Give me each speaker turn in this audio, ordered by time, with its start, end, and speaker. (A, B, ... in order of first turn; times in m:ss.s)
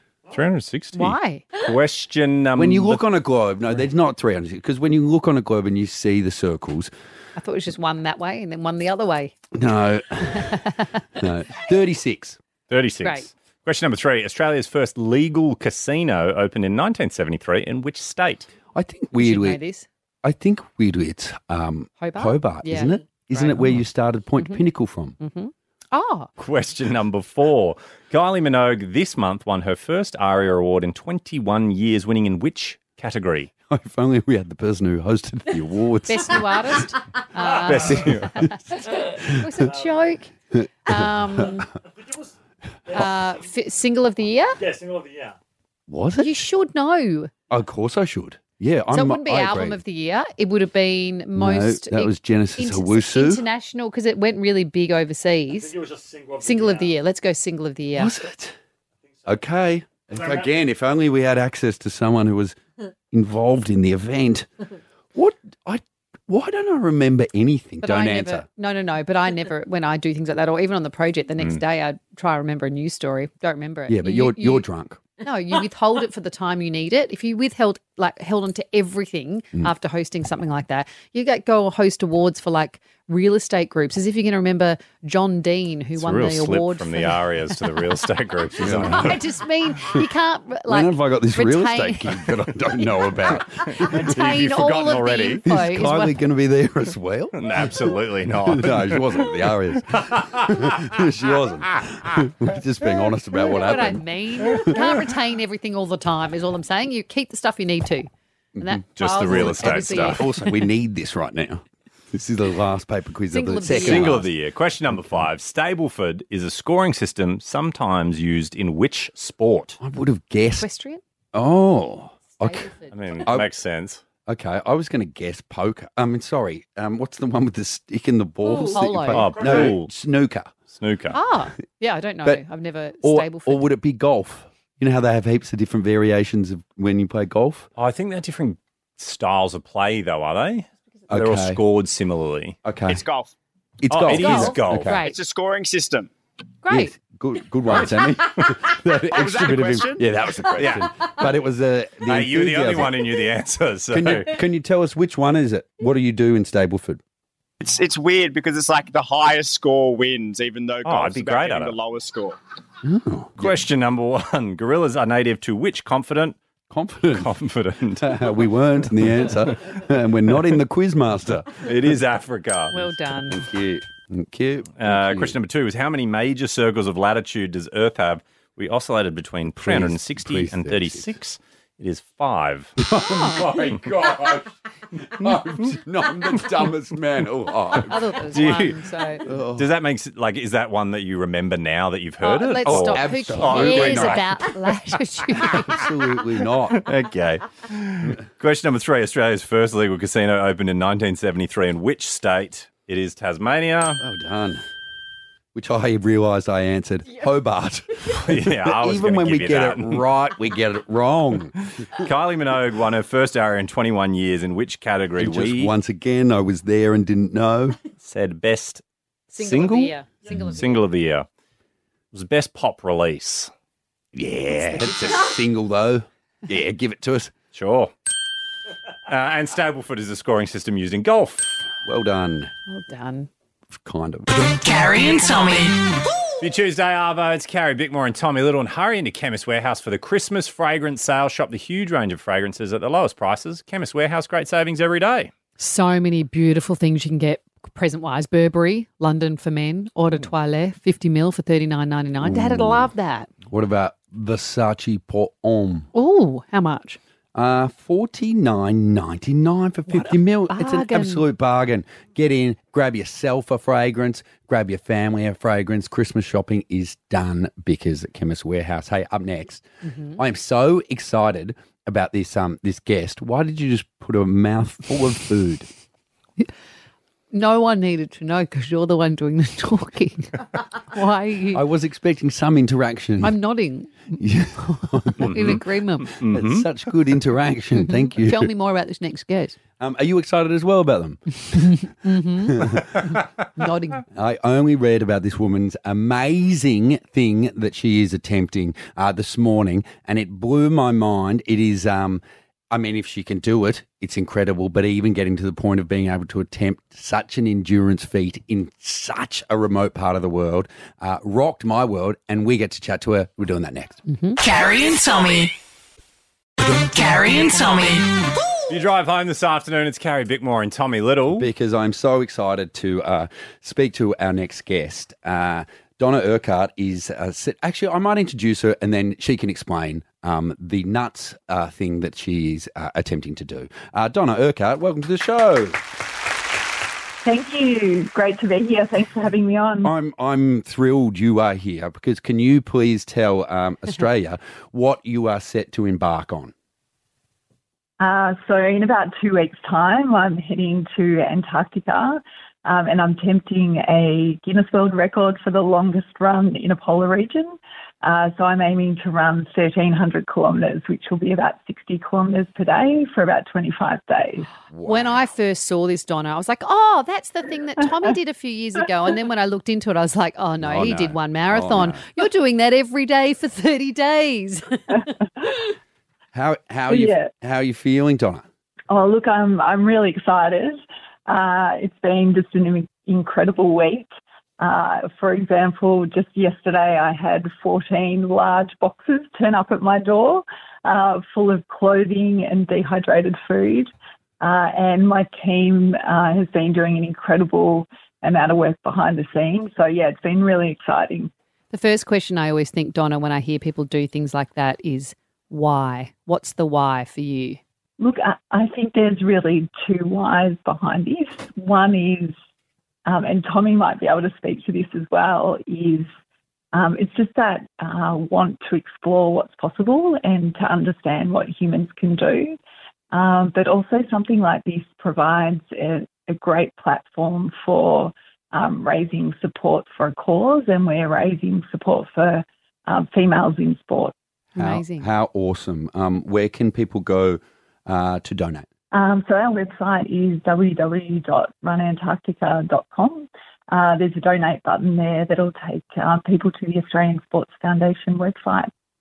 0:00.3-0:03.0 A
0:01.0-0:01.5 B
0:02.6-0:06.9 C
0:07.4-0:09.3 B
0:09.5-0:10.6 C
0:10.3-0:11.0 B
0:11.2-0:12.4 C
0:12.7-0:18.5 A
0:18.7-0:19.6 C
0:19.2-0:19.9 B
0:20.2-0:25.2 C
0:22.0-0:23.8 B
0:25.2-0:26.3 B
0:26.4-0:33.5 A
0:33.7-0:36.8 C
0:36.1-0:40.3 B
0:37.4-0:37.8 D
0:37.7-0:38.3 A
0:37.7-0:38.3 C
0:39.6-0:40.0 D
0:40.5-0:41.6 C
0:40.9-0:41.7 B
0:41.4-0:42.4 D
0:42.9-0:43.4 D
0:42.9-0:44.6 B
0:44.6-0:45.4 D
0:45.9-0:46.4 C
0:46.2-0:47.3 B
0:47.5-0:49.8 C
0:48.9-0:55.8 B
0:51.4-0:53.4 C
0:55.5-0:57.0 D
0:56.4-0:58.1 B
0:58.0-0:58.6 C
0:59.1-0:59.4 D
0:59.3-1:02.6 C
1:00.1-1:00.6 D
1:03.1-1:04.5 C
1:05.1-1:08.5 C
1:07.8-1:14.6 B
1:13.9-1:15.0 C
1:15.2-1:27.2 B
1:26.0-1:29.2 A
1:28.6-1:29.2 C
1:28.6-1:32.3 B
1:30.7-1:34.1 C
1:33.7-1:35.4 A
1:33.7-1:36.2 B
1:35.4-1:44.9 C
1:37.4-1:39.3 A
1:39.9-1:40.6 A
1:43.4-1:48.1 B
1:48.6-1:54.3 C
1:48.6-1:50.5 B
1:49.0-1:50.3 A
1:53.3-1:54.2 B
1:53.7-1:59.8 A
1:54.9-1:55.3 C
1:59.8-2:00.7 C
2:00.6-2:01.0 B
2:01.3-2:02.7 C
2:02.4-2:03.0 B
2:02.9-2:04.0 A
2:03.2-2:03.5 C
2:04.3-2:10.5 C
2:08.6-2:09.3 B
2:09.1-2:09.9 A
2:09.3-2:09.7 D
2:10.7-2:11.2 A
2:11.1-2:13.6 B
2:13.0-2:17.7 C
2:17.8-2:22.6 A
2:21.1-2:21.6 C
2:22.6-2:23.0 C
2:22.9-2:23.3 E
2:23.8-2:25.0 C
2:23.9-2:25.0 A
2:24.1-2:25.2 B
2:24.9-2:26.1 E
2:26.6-2:26.9 B
2:26.7-2:33.0 C
2:29.1-2:30.7 E
2:30.6-2:30.9 A
2:32.0-2:34.4 A
2:33.9-2:37.0 C
2:37.6-2:42.4 E
2:40.8-2:41.8 A
2:42.8-2:43.6 C
2:43.4-2:46.4 A
2:46.7-2:47.3 C
2:47.2-2:48.4 A
2:48.0-2:51.6 C
2:51.6-2:52.9 A
2:52.7-2:53.4 B
2:53.3-2:55.4 C
2:54.8-3:02.8 A
2:59.5-3:01.1 C
3:02.8-3:08.0 C
3:03.1-3:03.5 B
3:07.8-3:09.2 B
3:08.3-3:08.8 A
3:09.2-3:09.7 C
3:09.6-3:14.3 A
3:12.2-3:15.8 B
3:12.6-3:14.3 C
3:15.4-3:16.9 C
3:16.8-3:24.0 A
3:24.0-3:24.6 C
3:25.5-3:31.6 C
3:28.2-3:30.1 A
3:31.9-3:35.7 A
3:35.2-3:37.8 C
3:38.0-3:38.8 A
3:39.3-3:40.2 B
3:39.4-3:41.3 A
3:40.3-3:40.6 C
3:42.1-3:43.5 A
3:44.1-3:47.3 C
3:47.5-3:47.9 A
3:49.1-3:51.7 A
3:51.8-3:52.5 C
3:52.7-3:53.3 B
3:53.8-3:54.3 C
3:54.3-3:55.8 F
3:56.4-4:05.3 A
4:05.6-4:13.3 B
4:12.2-4:12.9 C
4:13.5-4:15.9 C
4:15.9-4:17.0 B
4:17.4-4:29.6 C
4:19.9-4:21.3 B
4:29.8-4:30.2 B
4:30.2-4:35.7 C
4:37.3-4:41.6 B
4:41.5-4:43.4 C
4:43.2-4:46.2 B
4:44.2-4:45.6 C
4:45.2-4:46.7 A
4:46.3-4:48.5 C
4:47.8-4:49.6 B
4:49.8-4:51.8 C
4:51.5-4:54.0 B
4:52.4-4:53.0 C
4:54.1-5:14.0 C
5:14.1-5:14.4 B
5:14.4-5:15.5 F
5:16.9-5:18.2 F
5:18.7-5:21.5 A
5:21.4-5:35.8 C
5:37.2-5:39.9 G
5:39.8-5:46.5 C
5:48.0-6:04.5 G
6:04.7-6:05.2 C
6:04.8-6:15.2 B
6:10.6-6:12.0 C
6:16.3-6:18.5 C
6:16.9-6:17.3 G
6:18.9-6:41.3 G
6:41.7-6:47.6 B
6:48.0-6:52.3 G
6:53.1-6:56.1 G
6:56.7-7:02.6 G
7:03.1-7:14.1 G
7:14.6-7:18.7 C
7:14.6-7:15.1 B
7:18.9-7:28.7 G